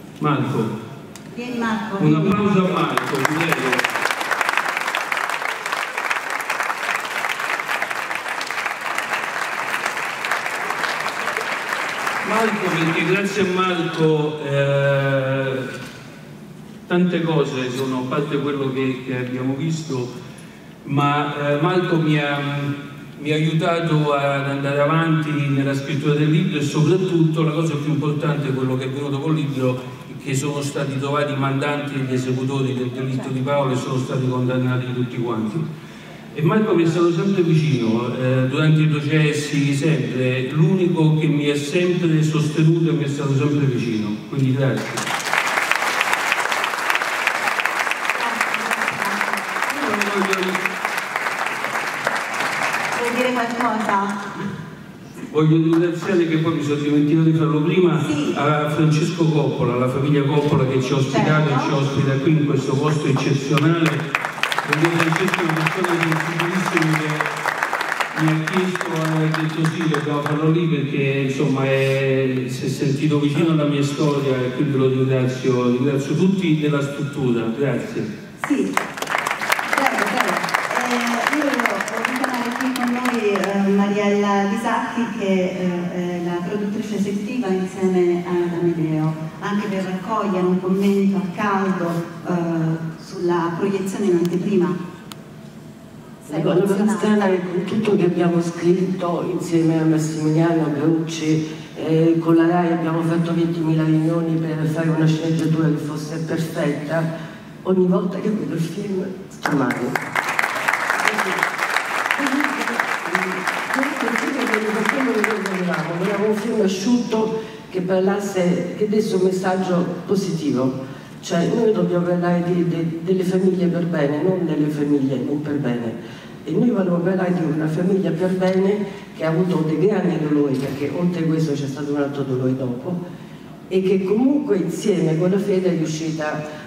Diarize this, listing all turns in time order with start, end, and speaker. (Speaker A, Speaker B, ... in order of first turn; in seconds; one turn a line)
Speaker A: 0.2-0.7
Speaker B: 1.3-2.5
Speaker A: 2.0-3.8
Speaker A: 12.2-15.7
Speaker A: 16.9-20.1
Speaker A: 20.8-35.6
Speaker A: 36.3-45.0
Speaker B: 48.1-50.1
Speaker A: 49.8-50.6
Speaker B: 53.0-54.2
Speaker A: 55.3-64.0
Speaker B: 58.0-58.4
Speaker B: 61.1-61.7
Speaker A: 64.6-67.3
Speaker A: 68.1-78.1
Speaker B: 78.4-78.8
Speaker B: 79.7-94.8
Speaker B: 96.3-97.4
Speaker C: 96.3-107.1
Speaker C: 107.6-110.0
Speaker C: 111.0-111.4
Speaker C: 112.2-133.0
Speaker C: 133.7-136.4